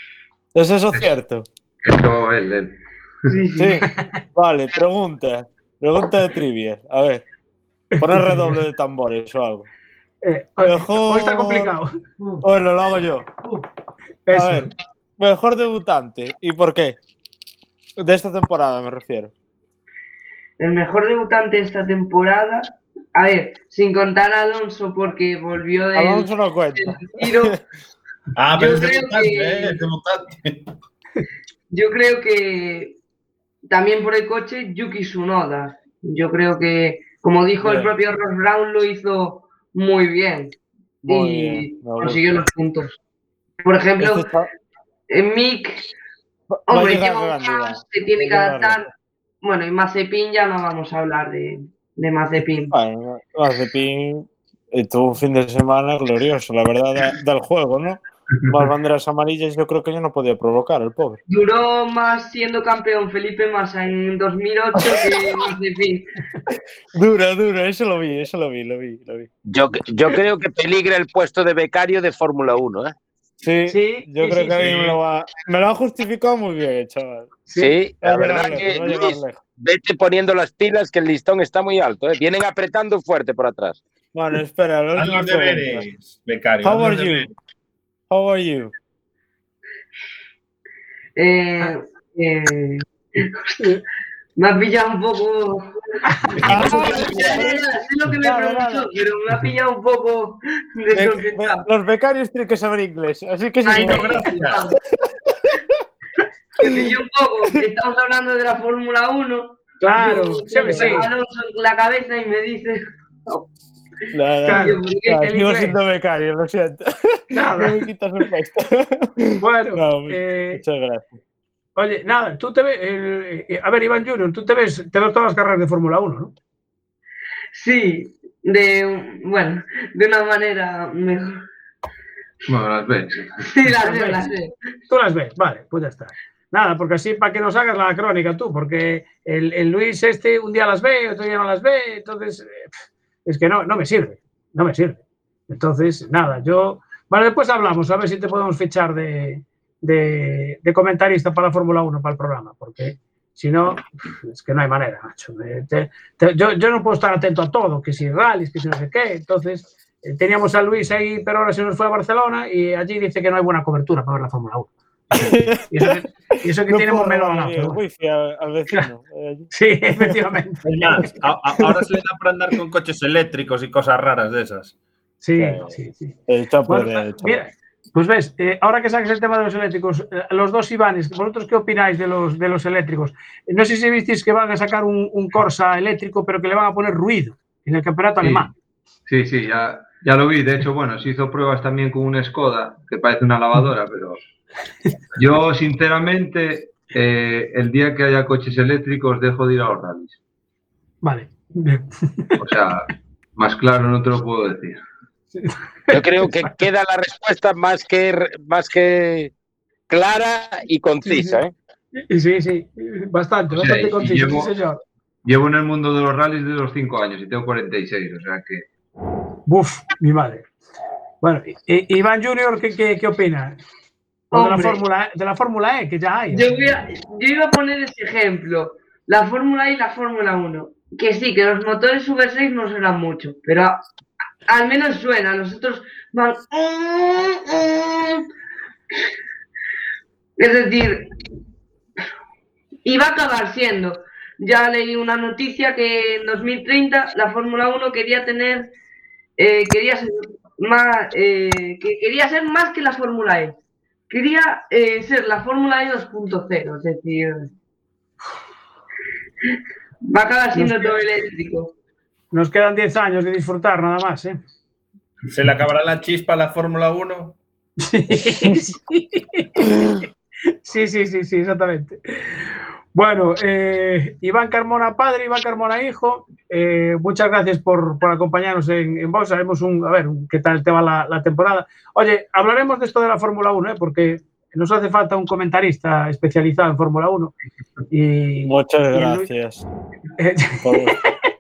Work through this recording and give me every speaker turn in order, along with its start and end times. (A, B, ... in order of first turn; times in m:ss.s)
0:00.5-0:01.5 A
0:01.8-0:03.4 B
0:03.3-0:03.9 C
0:03.6-0:07.2 A
0:08.0-0:09.7 A
0:08.0-0:08.6 D
0:10.2-0:12.4 D
0:10.6-0:11.8 A
0:12.4-0:13.3 A
0:14.3-0:14.7 D
0:14.3-0:17.0 A
0:18.0-0:19.3 A
0:20.6-0:27.6 C
0:25.9-0:27.6 A
0:28.4-0:30.7 E
0:28.5-0:29.8 C
0:31.7-0:33.0 C
0:33.7-0:40.6 C
0:37.6-0:38.0 A
0:41.0-0:42.5 A
0:41.1-0:43.0 C
0:43.6-0:44.3 C
0:44.0-0:44.5 A
0:45.1-0:45.9 C
0:46.5-0:48.9 A
0:46.7-0:48.9 C
0:49.4-0:52.7 C
0:52.7-1:01.2 A
1:01.3-1:06.1 C
1:04.9-1:05.5 A
1:06.9-1:09.3 A
1:09.5-1:13.0 F
1:13.4-1:17.4 A
1:13.7-1:14.7 D
1:14.6-1:15.0 E
1:17.6-1:23.8 F
1:18.0-1:19.4 A
1:24.1-1:25.8 A
1:25.0-1:27.3 E
1:26.6-1:27.3 A
1:28.1-1:28.7 A
1:31.2-1:33.6 C
1:34.4-1:35.8 C
1:36.4-1:41.6 C
1:36.4-1:37.5 E
1:36.4-1:38.9 A
1:40.9-1:44.3 A
1:43.6-1:44.8 C
1:43.7-1:44.7 E
1:46.6-1:53.5 C
1:49.8-1:51.1 D
1:54.1-2:01.2 A
1:54.5-1:55.2 C
1:54.5-1:55.8 D
1:57.3-1:57.8 D
1:59.4-2:00.6 D
2:01.8-2:06.3 D
2:07.5-2:11.4 C
2:12.5-2:13.4 B
2:13.5-2:14.5 C
2:13.8-2:14.2 D
2:14.9-2:22.7 D
2:23.3-2:44.7 D
2:45.2-2:50.2 A
2:45.7-2:47.8 D
2:49.5-2:51.1 D
2:50.6-2:54.7 E
2:55.2-2:56.1 D
2:56.3-2:57.4 A
2:56.7-3:08.5 D
3:08.2-3:08.5 B
3:09.1-3:14.2 B
3:15.2-3:20.2 B
3:21.0-3:22.4 D
3:22.4-3:24.8 B
3:25.4-3:26.5 D
3:25.9-3:29.3 F
3:29.9-3:31.5 F
3:31.0-3:31.4 D
3:32.1-3:34.8 D
3:33.5-3:34.5 B
3:35.2-3:38.7 B
3:39.5-3:40.5 D
3:41.2-3:43.6 D
3:44.3-3:44.8 C
3:44.3-3:46.6 D
3:46.3-3:53.8 C
3:54.5-3:58.2 C
4:00.4-4:01.1 C
4:02.8-4:08.7 C
4:09.4-4:13.6 C
4:14.1-4:17.5 C
4:20.1-4:21.7 C
4:20.6-4:20.9 D
4:22.3-4:24.4 D
4:25.3-4:27.4 E
4:27.8-4:29.7 D
4:30.6-4:32.0 D
4:33.0-4:47.3 D
4:47.9-4:49.3 D
4:48.5-4:49.7 A
4:50.2-4:51.1 D
4:50.6-4:51.0 A